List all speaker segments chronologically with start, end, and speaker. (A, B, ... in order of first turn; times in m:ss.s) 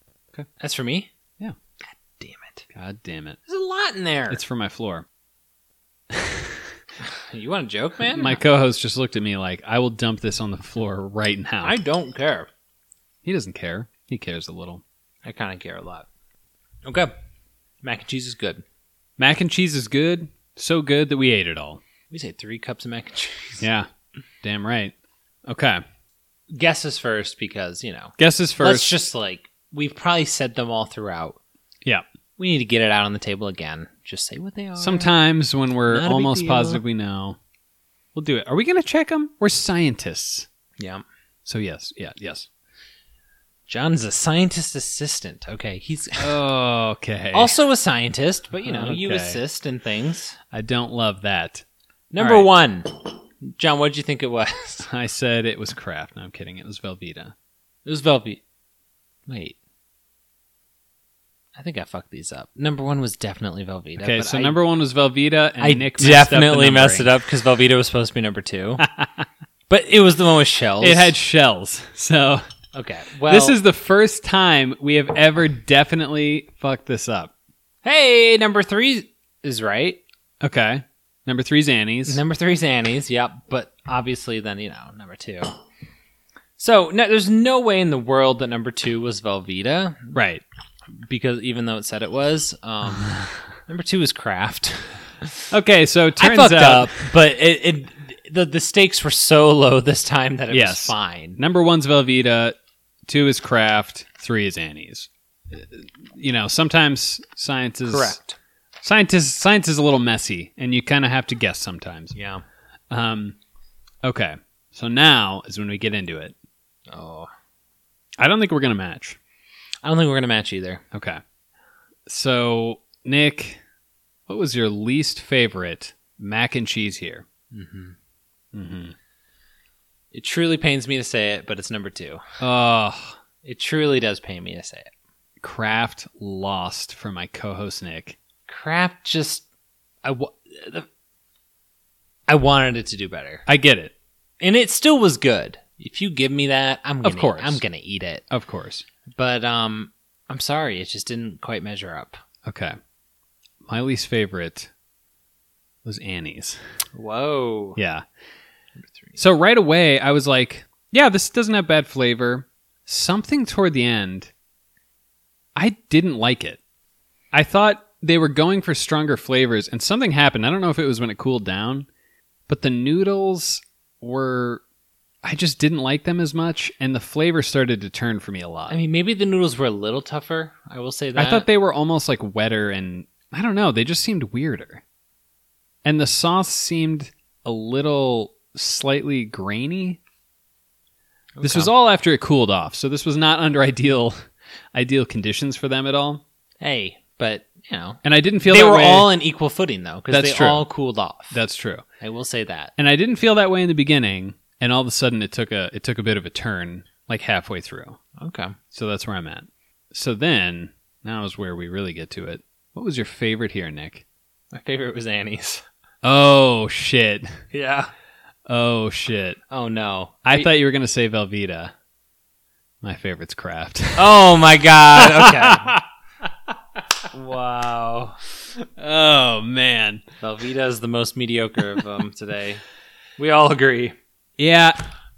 0:00.6-0:01.1 A
0:02.2-0:02.7 A
0:02.7-0:03.4 B
0:03.4-0:04.4 A
0:04.3-0:05.0 B
0:06.1-0:06.7 B
0:07.0-0:08.4 A
0:08.1-0:11.8 B
0:11.6-0:12.5 A
0:13.2-0:14.8 B
0:15.2-0:16.1 A
0:16.8-0:17.1 A
0:17.8-0:18.6 A
0:19.2-0:21.8 B
0:22.1-0:23.7 A
0:23.6-0:23.9 B
0:24.4-0:24.9 B
0:25.5-0:25.8 B
0:26.5-0:31.4 A
0:28.2-0:28.9 B
0:32.4-0:35.2 A
0:34.8-0:37.4 B
0:35.9-0:36.8 A
0:38.1-0:40.5 B
0:40.8-0:41.0 A
0:41.4-0:42.5 B
0:43.7-0:46.4 A
0:46.2-0:47.6 B
0:47.3-0:50.4 A
0:48.6-0:49.4 B
0:50.5-0:51.6 B
0:52.1-0:54.9 A
0:52.2-0:52.5 B
0:54.8-0:57.3 B
0:57.8-0:58.4 A
0:59.3-0:59.6 A
1:01.6-1:04.6 A
1:04.0-1:07.2 B
1:05.6-1:08.8 A
1:08.8-1:09.3 B
1:09.7-1:11.1 A
1:10.8-1:12.4 B
1:12.7-1:13.6 A
1:13.2-1:17.3 B
1:17.8-1:20.0 A
1:20.4-1:22.2 B
1:22.0-1:25.5 A
1:26.6-1:30.1 A
1:30.1-1:30.4 B
1:31.0-1:35.5 A
1:35.5-1:37.1 B
1:36.2-1:41.4 A
1:40.5-1:42.6 B
1:43.1-1:48.2 B
1:47.8-1:48.4 A
1:48.8-1:52.1 B
1:52.1-1:52.4 A
1:52.9-1:53.4 B
1:54.0-1:56.3 B
1:56.9-1:57.3 A
1:58.2-1:59.2 B
1:59.8-2:00.8 A
2:00.9-2:01.2 B
2:02.0-2:03.6 B
2:04.3-2:07.2 B
2:07.5-2:08.0 A
2:08.5-2:08.9 B
2:10.1-2:12.2 A
2:12.4-2:13.2 B
2:13.4-2:14.9 A
2:15.4-2:18.2 B
2:18.5-2:19.4 A
2:20.0-2:20.8 A
2:22.3-2:23.4 A
2:23.5-2:23.9 B
2:24.4-2:28.2 A
2:27.0-2:27.6 B
2:28.3-2:28.8 B
2:29.1-2:32.2 A
2:32.4-2:32.8 B
2:33.6-2:34.7 B
2:35.8-2:36.6 B
2:36.9-2:37.8 A
2:37.8-2:38.0 B
2:38.8-2:39.2 A
2:39.2-2:44.3 B
2:45.5-2:46.6 B
2:47.3-2:51.9 B
2:52.5-2:54.6 B
2:55.2-2:58.8 B
2:58.7-3:01.5 A
3:01.2-3:04.8 B
3:05.8-3:10.0 B
3:11.4-3:11.7 A
3:11.4-3:16.2 B
3:16.6-3:21.4 A
3:18.0-3:19.1 B
3:20.1-3:20.6 B
3:21.3-3:21.8 B
3:22.0-3:22.7 A
3:22.8-3:28.0 B
3:28.2-3:28.6 A
3:28.7-3:34.0 B
3:34.5-3:35.6 A
3:36.0-3:37.3 B
3:37.5-3:37.9 A
3:38.5-3:39.4 B
3:39.5-3:40.5 A
3:40.2-3:41.7 B
3:42.8-3:44.2 B
3:44.0-3:45.8 A
3:45.0-3:46.2 B
3:47.1-3:48.2 A
3:48.6-3:50.0 B
3:50.2-3:52.6 A
3:53.2-3:53.9 A
3:54.4-3:54.8 B